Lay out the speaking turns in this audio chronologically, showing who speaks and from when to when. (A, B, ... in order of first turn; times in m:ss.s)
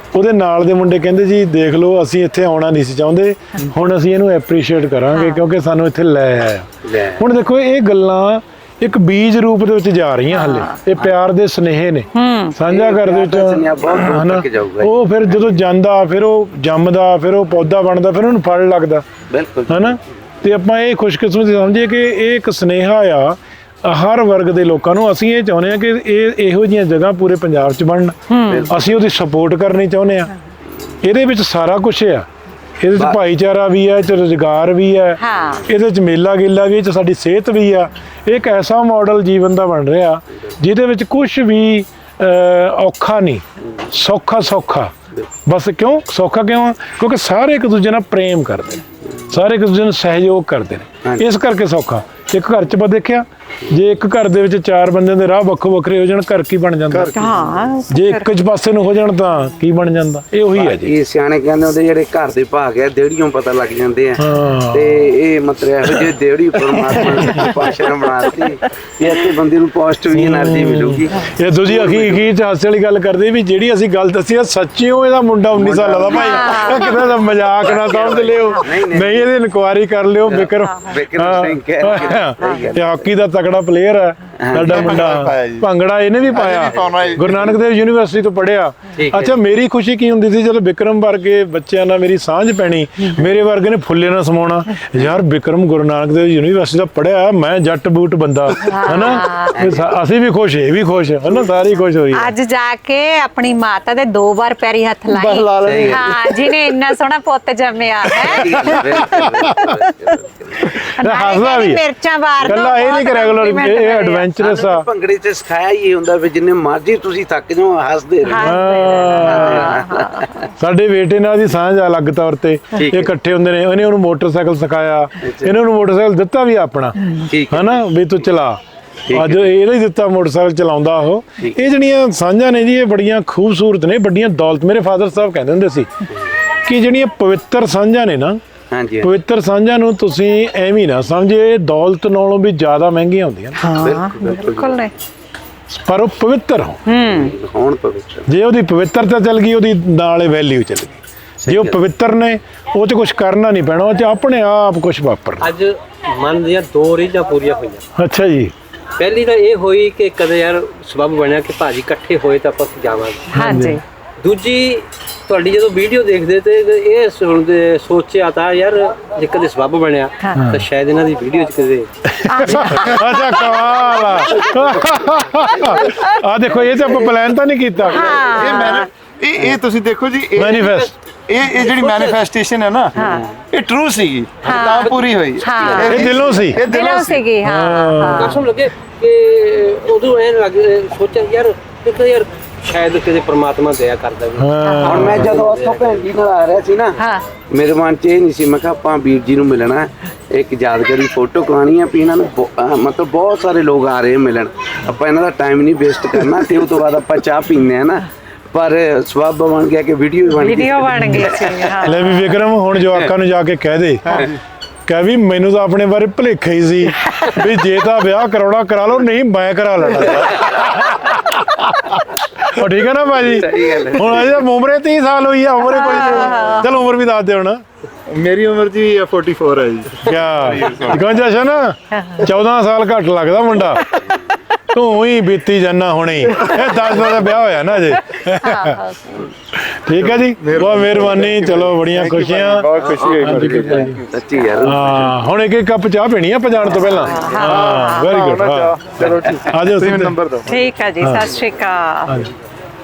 0:00.1-0:19.0 A
0:05.1-0:05.4 B
0:06.8-0:07.2 C
0:10.3-0:10.8 B
0:12.1-0:12.6 B
0:12.7-0:15.6 C
0:19.3-0:20.0 C
0:19.7-0:28.2 A
0:28.3-0:28.7 B
0:28.4-0:29.0 C
0:28.7-0:30.3 A
0:31.0-0:32.3 A
0:32.8-0:44.9 A
0:35.2-0:35.7 B
0:45.5-0:57.2 A
0:56.9-0:57.3 D
0:57.2-0:58.3 B
0:57.9-1:00.9 A
1:00.6-1:12.3 C
1:04.2-1:05.1 A
1:06.7-1:07.7 A
1:10.1-1:42.3 A
1:15.5-1:17.0 C
1:16.1-1:17.0 B
1:17.6-1:19.3 C
1:20.3-1:23.1 C
1:24.4-1:25.0 C
1:24.6-1:25.7 D
1:26.3-1:27.6 D
1:26.5-1:27.4 C
1:29.0-1:29.4 C
1:38.6-1:39.6 B
1:39.5-1:39.9 C
1:42.1-1:49.9 B
1:45.1-1:46.2 D
1:45.6-1:46.2 C
1:48.1-1:50.7 C
1:48.6-1:49.5 A
1:50.6-1:51.8 A
1:50.8-1:54.3 B
1:52.4-1:54.8 A
1:54.4-2:00.5 C
1:58.2-2:00.4 B
1:58.4-1:59.8 A
2:00.6-2:08.6 A
2:02.8-2:03.1 C
2:05.2-2:05.6 C
2:07.2-2:07.8 C
2:09.1-2:09.5 C
2:09.1-2:15.9 A
2:16.6-2:18.4 A
2:18.7-2:19.1 C
2:19.0-2:23.6 A
2:23.6-2:24.9 B
2:23.8-2:24.9 C
2:25.7-2:26.8 A
2:26.9-2:27.3 B
2:27.0-2:28.3 C
2:28.3-2:35.5 A
2:31.4-2:31.8 C
2:35.4-2:37.8 E
2:38.0-2:38.5 A
2:39.0-2:43.4 E
2:43.3-2:43.8 B
2:43.4-2:43.8 A
2:44.2-2:51.9 E
2:50.2-2:50.5 B
2:50.4-2:50.6 A
2:52.1-2:58.1 A
2:52.2-2:54.5 B
2:54.4-2:55.8 C
2:55.8-2:56.2 B
2:56.5-2:57.2 C
2:57.9-2:58.2 C
2:57.9-2:58.9 B
2:58.3-3:07.2 D
3:00.4-3:00.9 A
3:00.5-3:00.9 E
3:01.4-3:02.2 E
3:03.0-3:03.3 B
3:03.0-3:03.4 C
3:04.4-3:06.2 E
3:04.5-3:08.4 B
3:05.8-3:06.6 A
3:07.4-3:08.4 A
3:08.1-3:16.1 E
3:14.4-3:15.3 A
3:14.6-3:15.0 B
3:14.9-3:32.1 C
3:17.0-3:17.3 B
3:30.3-3:32.2 B
3:31.8-3:34.3 A
3:34.9-3:47.6 A
3:40.1-3:41.0 C
3:43.1-3:44.4 C
3:45.6-3:46.8 B
3:48.1-3:51.3 D
3:50.0-3:54.0 A
3:51.9-3:52.3 B
3:53.8-3:54.1 B
3:54.7-3:58.9 A
3:56.4-3:57.3 D
3:58.4-3:59.2 B
3:59.6-4:04.0 A
4:00.0-4:04.1 D
4:02.8-4:03.9 E
4:04.1-4:05.2 C
4:04.6-4:10.2 A
4:06.7-4:08.1 B
4:06.8-4:07.3 C
4:07.4-4:10.6 D
4:10.5-4:12.3 B
4:11.0-4:11.4 A